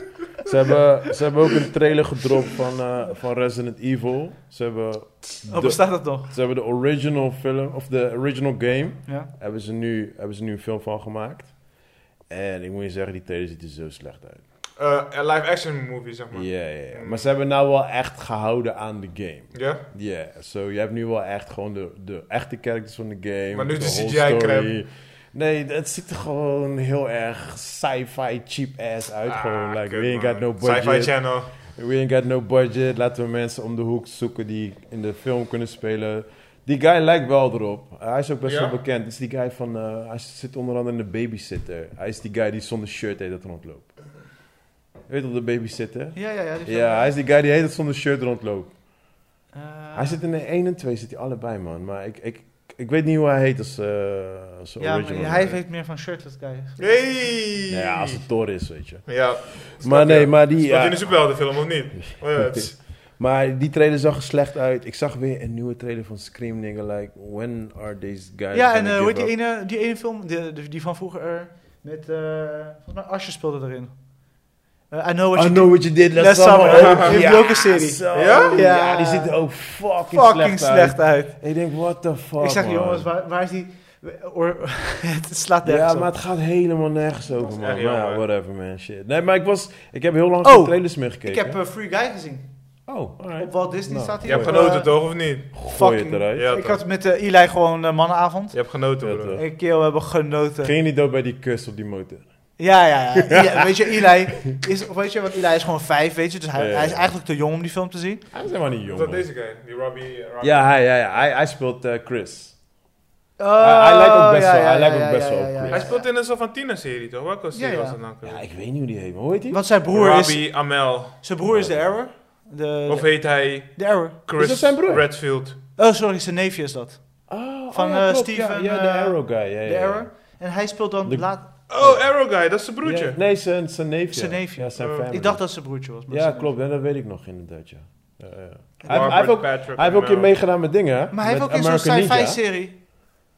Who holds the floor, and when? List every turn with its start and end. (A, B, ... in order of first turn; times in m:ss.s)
0:00.4-0:14.4 A
0:05.5-0:06.3 B
0:09.1-0:09.3 B
0:14.8-0:17.3 C
0:16.3-0:44.1 A
0:19.5-0:19.8 C
0:23.5-0:24.7 C
0:29.3-0:31.5 C
0:38.4-0:38.8 C
0:45.1-0:48.8 A
0:46.2-0:47.2 B
0:49.5-0:50.2 B
0:49.9-0:55.6 A
0:54.8-0:56.8 B
0:56.8-0:58.5 C
0:57.7-1:09.3 A
0:59.1-1:02.9 C
1:08.5-1:21.4 B
1:15.3-1:23.1 A
1:16.6-1:17.2 C
1:18.1-1:18.6 C
1:22.4-1:26.1 B
1:25.6-1:31.6 A
1:27.5-1:28.2 C
1:30.4-1:32.5 B
1:32.9-1:34.8 A
1:33.4-1:38.8 B
1:34.2-1:35.6 C
1:35.5-1:36.6 A
1:36.4-1:36.8 C
1:38.5-1:39.4 C
1:39.0-1:39.6 A
1:39.4-1:40.7 B
1:40.6-1:42.7 A
1:42.6-1:48.2 B
1:43.3-1:43.7 A
1:46.6-1:47.2 A
1:48.3-1:49.3 A
1:48.9-1:50.8 C
1:50.4-1:52.7 A
1:53.4-1:56.1 B
1:53.6-1:56.0 A
1:55.7-1:58.5 C
1:57.6-1:58.0 B
1:58.2-1:59.6 A
1:59.5-2:04.2 B
1:59.9-2:01.2 C
2:01.4-2:02.0 A
2:02.9-2:05.6 C
2:04.4-2:05.1 A
2:05.8-2:11.5 B
2:07.3-2:10.4 A
2:11.0-2:22.4 A
2:11.7-2:13.2 C
2:14.1-2:16.6 B
2:14.8-2:15.1 C
2:18.8-2:19.3 B
2:18.9-2:20.3 C
2:21.1-2:22.8 B